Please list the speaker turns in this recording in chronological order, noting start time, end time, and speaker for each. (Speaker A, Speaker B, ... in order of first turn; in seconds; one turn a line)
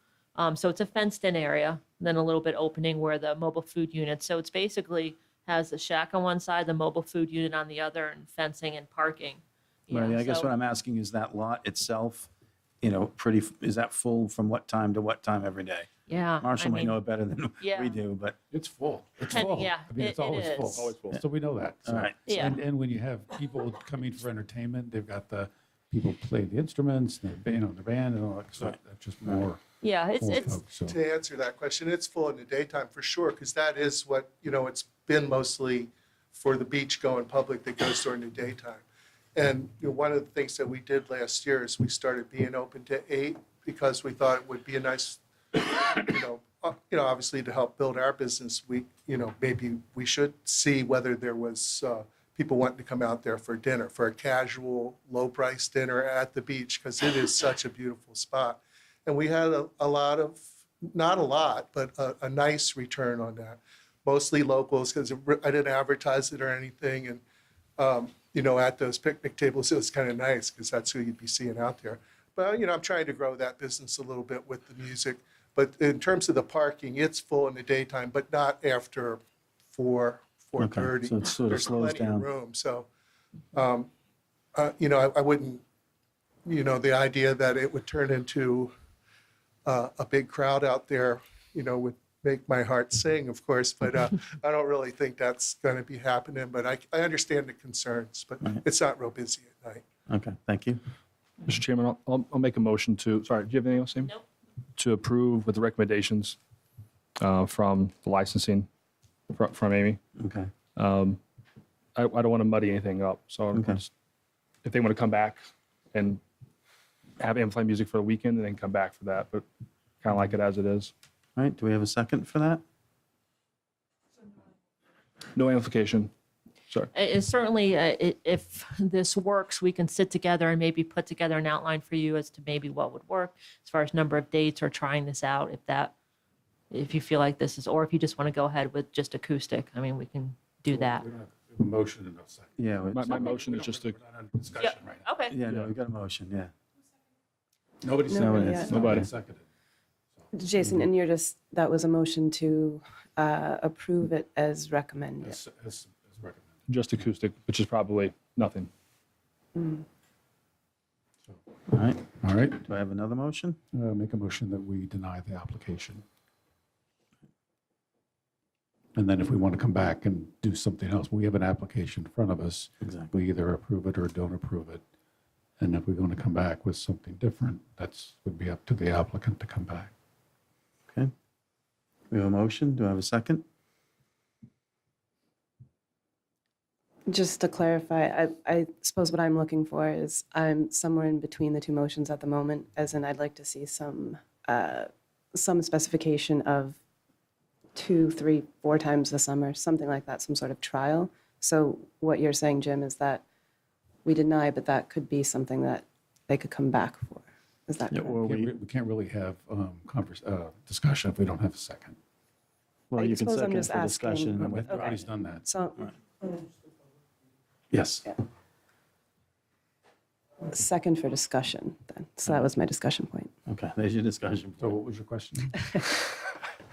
Speaker A: 0.4-10.5
Speaker B: 9.9-12.3
Speaker B: 12.8-15.9
Speaker A: 16.1-17.0
Speaker B: 16.4-18.4
Speaker A: 17.6-18.0
Speaker C: 18.5-31.0
Speaker A: 19.3-20.9
Speaker D: 20.7-21.2
Speaker B: 21.9-22.2
Speaker A: 22.3-22.6
Speaker A: 29.8-30.6
Speaker E: 30.9-38.8
Speaker E: 39.4-67.2
Speaker E: 67.8-79.2
Speaker E: 79.7-82.9
Speaker B: 80.6-82.3
Speaker E: 83.5-83.9
Speaker E: 84.5-85.6
Speaker E: 86.5-88.7
Speaker E: 89.7-99.9
Speaker B: 100.1-100.8
Speaker D: 101.5-104.1
Speaker D: 104.8-106.4
Speaker D: 107.2-108.7
Speaker D: 109.3-110.0
Speaker B: 110.2-110.5
Speaker D: 110.8-111.2
Speaker D: 112.0-113.9
Speaker B: 113.5-113.8
Speaker D: 114.7-116.2
Speaker D: 117.2-119.4
Speaker D: 120.0-120.9
Speaker B: 121.4-122.6
Speaker D: 125.3-126.1
Speaker A: 126.9-135.9
Speaker A: 136.7-141.1
Speaker C: 140.7-145.1
Speaker B: 142.6-143.2
Speaker D: 142.9-144.0
Speaker A: 144.6-145.4
Speaker B: 145.3-146.5
Speaker C: 147.8-149.4
Speaker F: 148.1-148.8
Speaker B: 148.2-149.1
Speaker D: 148.7-149.0
Speaker F: 150.3-155.4
Speaker C: 155.2-156.8
Speaker D: 156.7-158.7
Speaker F: 159.6-159.8
Speaker B: 161.7-162.1
Speaker C: 162.2-162.7
Speaker B: 162.7-163.6
Speaker C: 163.7-166.0
Speaker C: 168.9-174.8
Speaker B: 172.8-173.1
Speaker C: 175.6-179.9
Speaker B: 182.1-183.4
Speaker F: 187.1-196.8
Speaker F: 197.8-203.2
Speaker F: 204.1-208.2
Speaker B: 207.9-208.5
Speaker C: 208.2-212.0
Speaker B: 212.9-214.9
Speaker F: 213.0-216.4
Speaker C: 214.4-215.5
Speaker B: 217.7-218.1
Speaker F: 220.4-223.3
Speaker B: 223.5-224.7
Speaker C: 224.6-225.7